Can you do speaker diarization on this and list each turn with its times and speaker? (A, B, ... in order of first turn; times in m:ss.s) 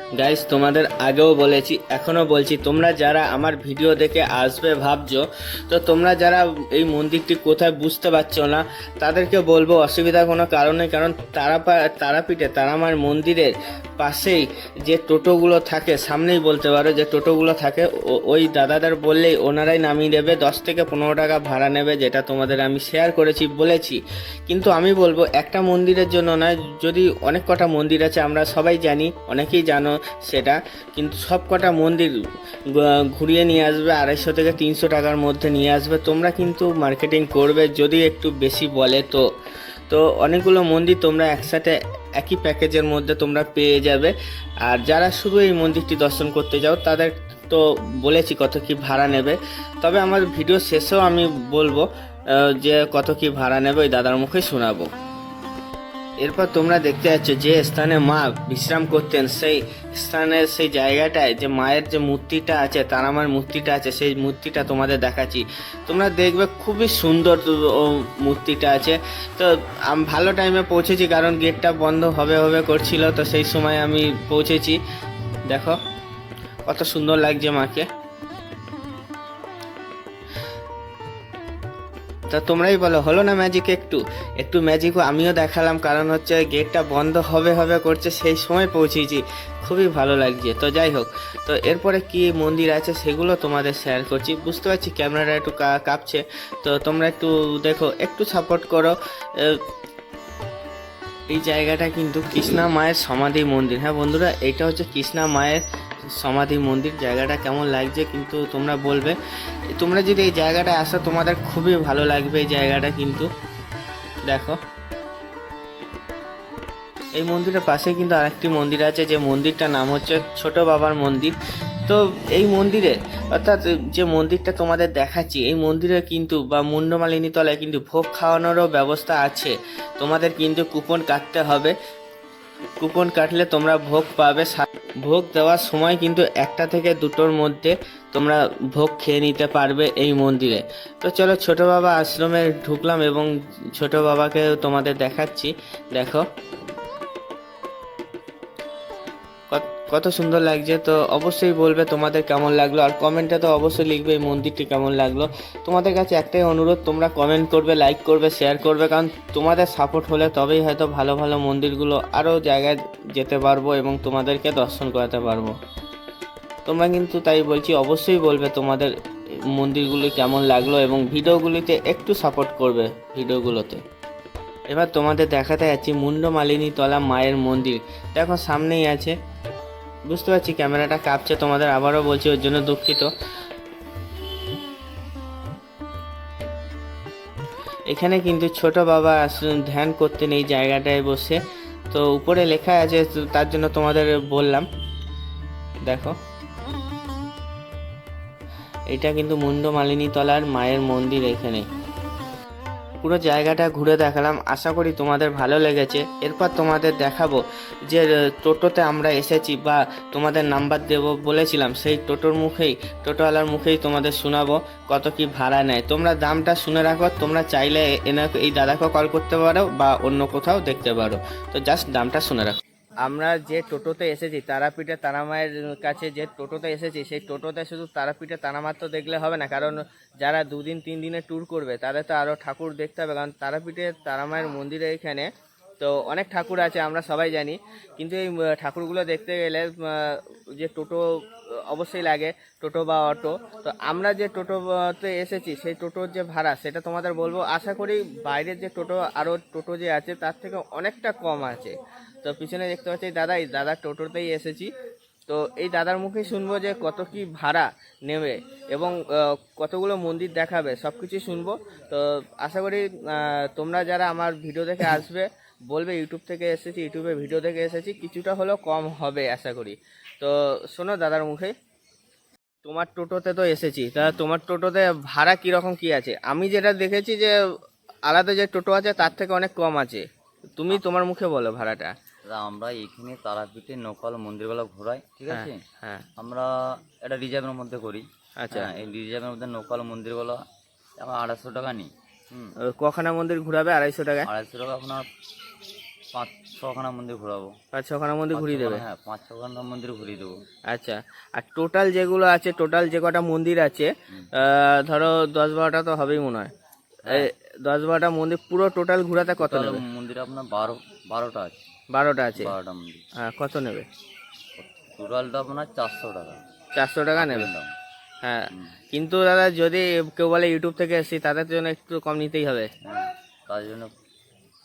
0:00.2-0:32.1 A
0:32.7-0:39.2 A
0:39.9-0:44.1 A
0:44.6-0:54.9 A
0:56.2-1:14.8 A
1:15.5-1:15.8 A
1:16.7-1:17.9 A
1:22.3-1:39.6 A
1:41.3-1:49.2 A
1:49.7-1:53.3 A
1:54.3-1:54.6 A
1:57.2-2:01.3 A
2:01.8-2:11.7 A
2:12.8-2:26.2 A
2:29.5-2:45.5 A
2:46.6-2:48.9 A
2:49.5-2:53.8 A
2:54.7-2:59.1 A
3:00.1-3:03.1 A
3:07.9-3:11.4 A
3:11.9-3:14.6 A
3:15.8-3:16.1 A
3:18.9-3:21.6 A
3:23.0-4:01.0 A
4:01.7-4:14.7 A
4:15.3-4:31.5 A
4:32.6-4:37.3 A
4:38.1-4:40.0 A
4:40.6-4:41.9 A
4:42.3-4:45.6 B
4:45.3-4:46.0 A
4:46.2-4:50.4 B
4:48.4-4:48.7 A
4:51.0-4:52.5 B
4:52.7-4:54.3 A
4:54.2-4:55.0 B
4:56.1-4:57.5 B
4:57.7-4:58.8 A
4:58.3-5:00.4 B
5:00.7-5:06.5 A
5:07.1-5:09.8 A
5:09.4-5:11.6 B
5:11.9-5:12.5 A
5:12.4-5:13.0 B
5:13.2-5:13.9 A
5:14.6-5:16.4 B
5:16.7-5:17.5 A
5:17.2-5:17.7 B
5:18.2-5:22.7 A
5:22.8-5:23.9 B